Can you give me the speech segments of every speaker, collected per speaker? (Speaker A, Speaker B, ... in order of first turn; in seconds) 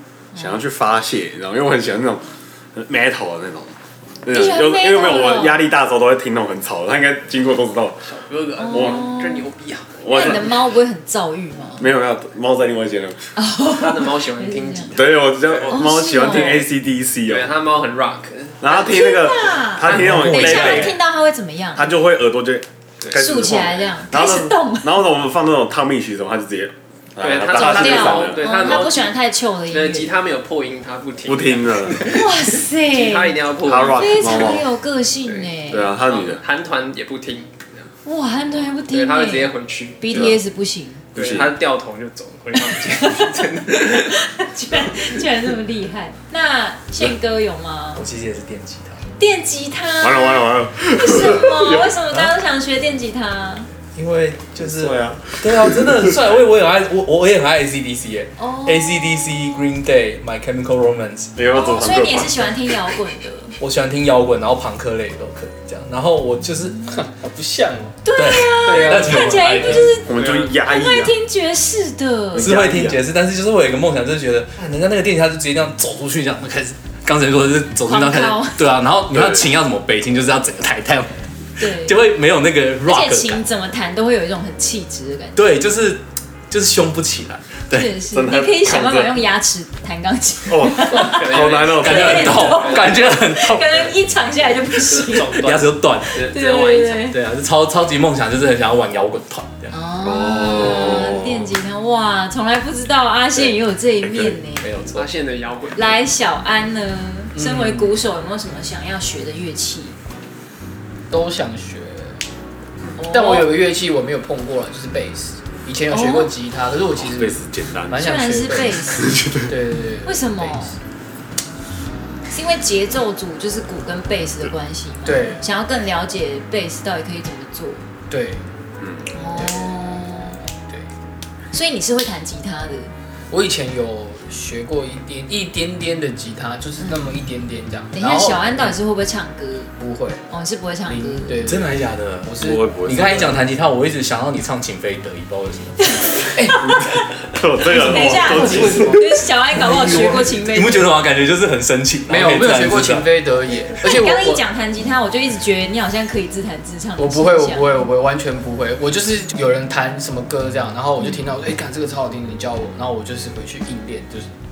Speaker A: 0.3-0.6, 4.3-5.6, 8.6-9.5, 10.1-11.9, 13.4-15.0, 15.7-16.6, 18.7-21.9, 23.1-25.0, 27.5-30.1, 32.1-33.4, 34.0-36.0, 38.0-41.1, 42.5-48.0, 49.2-53.7, 58.4-59.5, 61.5-63.5, 68.0-72.5, 77.8-78.7, 81.6-82.0, 82.8-85.5, 87.7-95.5, 96.2-97.2, 99.7-104.7, 105.8-110.0, 113.0-113.5, 115.9-116.3, 118.0-119.2, 120.0-120.8, 122.3-127.8, 129.1-130.4, 131.5-132.9, 136.8-137.2, 137.9-139.7, 140.3-141.4, 145.8-147.0, 147.6-150.9, 153.8-157.9
Speaker B: 0.3-8.0, 8.7-9.1, 10.0-10.6, 11.8-13.2, 14.9-17.5, 18.6-21.0, 21.8-28.8, 31.3-32.2, 33.6-34.7, 35.7-36.4, 40.1-40.4, 41.1-41.5, 50.0-52.0, 54.6-56.3, 61.4-62.7, 70.0-71.2, 72.3-73.0, 79.1-79.5, 87.8-89.2, 90.5-92.5, 100.0-101.5, 117.0-119.6, 128.8-129.1, 142.4-143.5, 146.6-149.1
Speaker C: 8.0-10.4, 13.7-16.6, 17.3-19.1, 19.9-20.3, 27.2-29.2, 29.7-34.6, 35.2-37.9, 38.9-40.4, 41.1-44.2, 70.1-70.5, 90.9-93.2, 94.9-97.1, 105.0-106.0
Speaker D: 19.9-21.0, 48.0-49.1, 54.0-61.4, 63.6-66.8, 68.2-70.0, 72.4-83.4, 85.3-87.9, 91.8-93.9, 95.3-96.2, 97.1-99.7, 104.6-105.1, 141.4-145.9, 148.1-149.0, 149.5-153.1
Speaker E: 66.9-68.0, 68.6-69.9, 107.3-107.9, 111.1-112.2, 113.1-118.9, 119.5-120.8, 125.0-125.4, 128.1-128.5, 129.3-129.8, 133.3-138.6, 139.8-140.2, 140.9-142.8, 146.3-146.6, 147.7-149.1, 152.1-154.4, 157.0-164.3